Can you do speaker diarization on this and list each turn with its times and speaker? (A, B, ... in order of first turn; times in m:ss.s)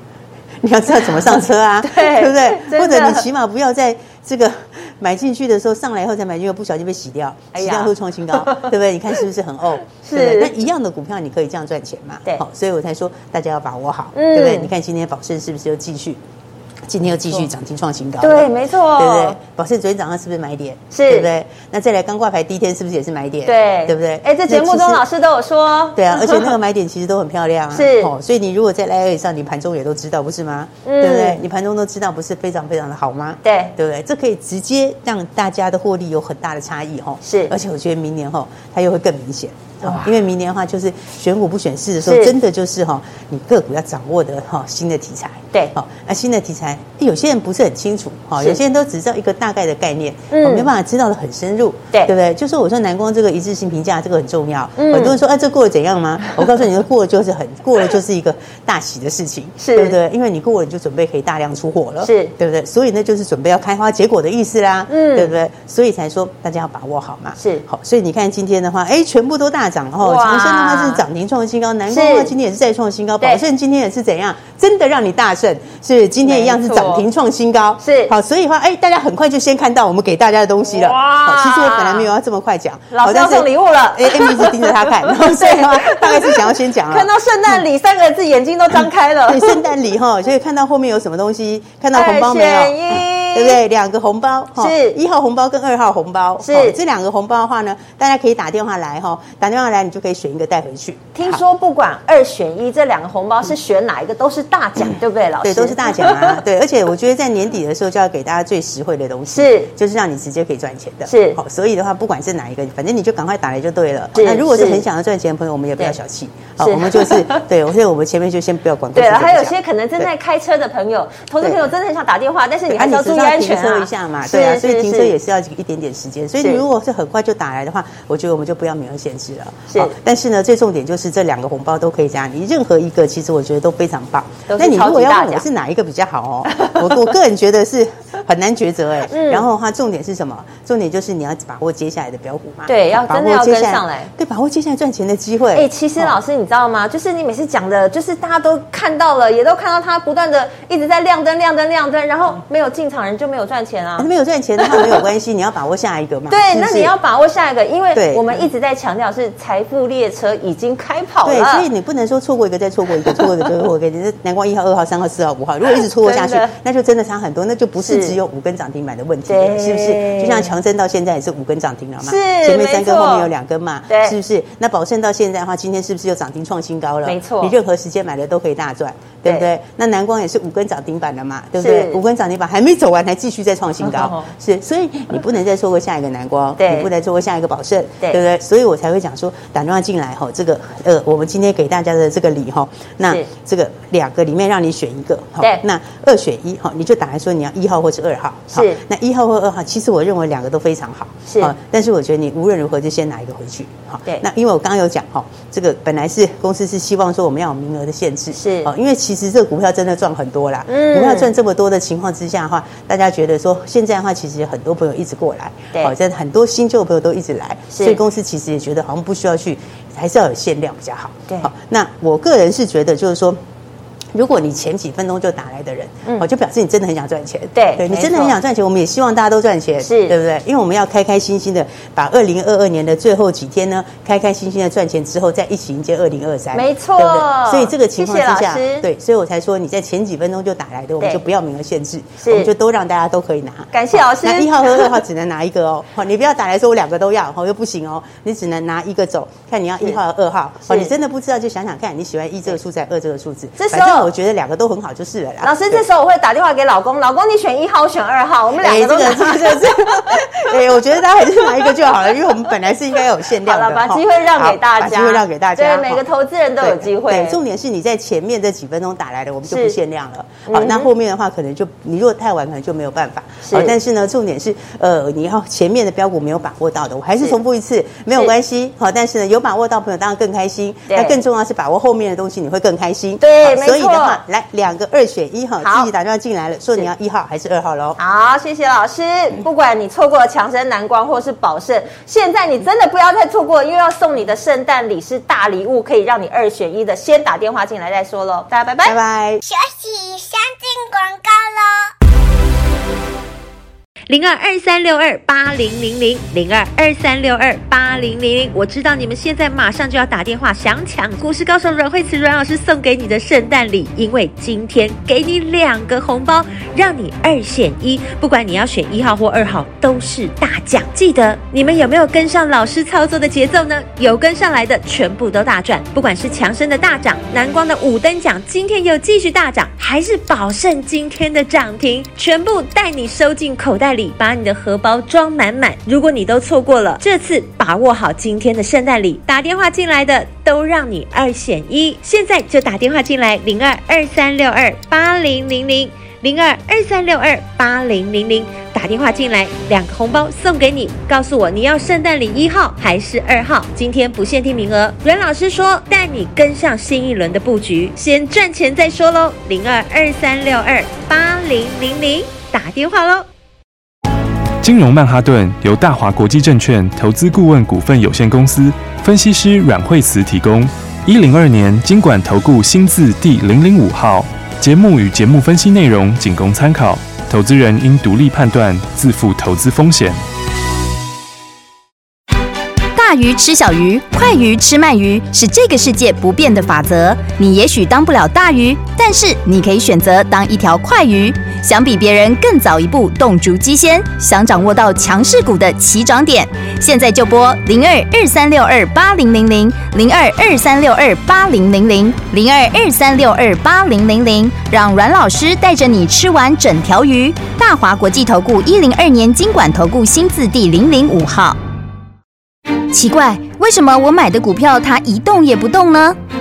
0:00.6-0:16.2 A
0:01.8-0:03.2 B
0:07.5-0:08.7 B
0:10.0-0:10.5 B
0:14.1-0:14.7 B
0:16.9-0:25.0 A
0:18.2-0:19.4 B
0:20.9-0:21.3 B
0:23.5-0:26.6 B
0:26.0-1:27.6 A
0:27.7-0:28.1 B
0:30.8-0:31.4 B
0:33.4-0:33.7 B
0:37.2-0:37.5 B
0:39.8-0:40.1 B
0:42.0-0:42.3 B
0:50.3-0:50.7 B
0:54.8-0:55.2 B
0:59.6-1:00.0 B
1:02.0-1:02.3 B
1:04.9-1:05.3 B
1:07.4-1:07.6 B
1:10.0-1:11.0 B
1:11.9-1:12.3 B
1:16.2-1:17.0 B
1:17.8-1:18.1 B
1:20.6-1:22.1 B
1:22.9-1:29.7 B
1:28.8-1:41.4 A
1:31.9-1:33.6 B
1:34.6-1:35.0 B
1:36.4-1:36.8 B
1:41.2-1:46.4 B
1:45.4-2:00.1 A
1:49.3-1:49.7 B
1:51.1-1:51.4 B
1:54.2-1:54.8 B
1:56.6-1:57.4 B
1:58.9-2:05.1 B
2:01.4-2:01.7 A
2:02.7-2:26.2 A
2:14.5-2:15.4 B
2:16.5-2:17.0 B
2:19.1-2:19.4 B
2:22.7-2:24.1 B
2:25.5-2:34.1 B
2:34.0-2:36.9 A
2:34.6-2:35.0 B
2:36.3-2:41.7 B
2:37.9-2:38.5 A
2:41.2-3:43.4 A
2:43.1-2:43.4 B
2:45.8-2:46.5 B
2:47.8-2:48.2 B
2:49.3-2:50.5 B
2:52.0-2:53.3 B
2:53.9-2:54.2 B
2:57.0-2:57.6 B
3:01.6-3:02.0 B
3:03.8-3:04.3 B
3:06.6-3:06.9 B
3:18.5-3:18.8 B
3:21.3-3:21.5 B
3:28.4-3:28.7 B
3:30.7-3:31.3 B
3:37.7-3:38.0 B
3:44.1-4:15.8 A
3:47.6-3:48.4 B
3:49.8-3:50.2 B
3:56.5-3:58.9 B
4:02.2-4:02.5 B
4:03.7-4:04.9 B
4:13.6-4:14.1 B
4:15.4-4:20.5 B
4:18.6-4:26.0 A
4:21.2-4:21.7 B
4:23.3-4:27.4 B
4:26.6-4:48.0 A
4:29.5-4:29.8 B
4:30.5-4:30.9 B
4:33.4-4:33.8 B
4:40.9-4:41.2 B
4:43.2-4:44.2 B
4:45.6-4:45.9 B
4:48.0-4:59.0 B
4:58.8-4:59.4 A
4:59.4-5:01.9 C
5:04.1-6:03.3 D
6:04.6-6:20.2 E
6:23.0-6:51.6 F
6:52.9-6:56.2 F